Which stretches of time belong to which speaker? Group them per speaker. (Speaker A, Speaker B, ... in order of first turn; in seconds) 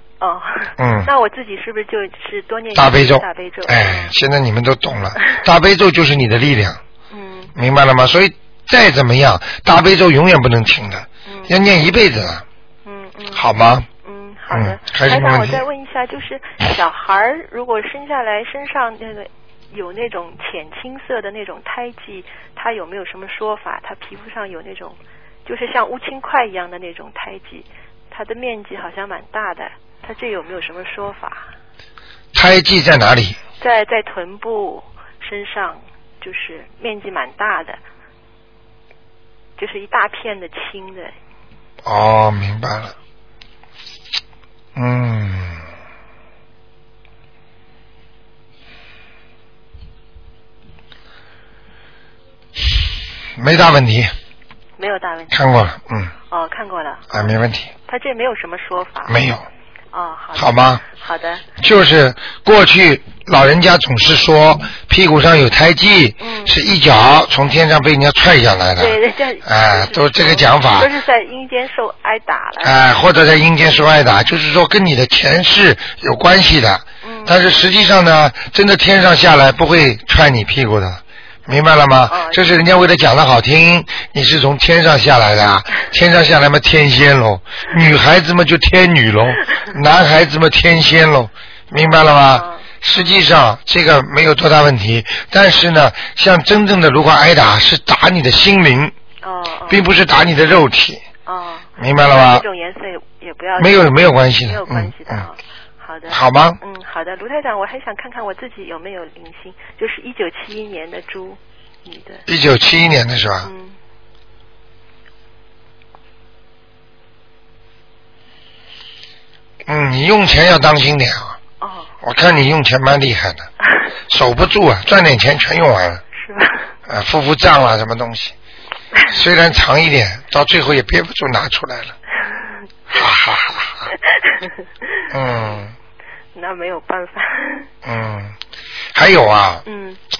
Speaker A: 0.2-4.1, 7.1-7.5, 11.3-11.6, 12.8-13.5, 14.0-31.5, 33.6-37.8, 39.6-41.1, 54.8-55.4, 56.3-57.4, 57.9-59.2, 59.9-61.5, 66.2-66.6, 68.8-72.8, 77.0-77.6, 82.1-82.4, 92.3-93.2, 99.2-99.8, 101.3-112.2, 113.4-113.8, 121.6-121.9, 126.2-126.7, 132.2-132.6, 134.0-135.1, 136.3-137.7, 139.7-140.0
Speaker B: 0.8-1.1, 2.7-6.8, 7.6-12.4, 13.3-13.9, 14.5-15.6, 32.3-33.4, 41.9-43.0, 44.8-45.6, 53.4-54.1, 55.3-56.1, 57.1-57.7, 59.1-59.5, 60.4-60.8, 61.6-70.9, 72.6-98.9, 99.7-101.0, 101.8-102.5, 103.6-105.3, 106.1-106.6, 112.3-113.5, 119.7-121.4, 122.0-123.5, 124.1-126.0, 126.9-128.3, 129.1-131.9, 132.9-133.9, 135.1-135.7, 137.8-138.3, 138.9-139.6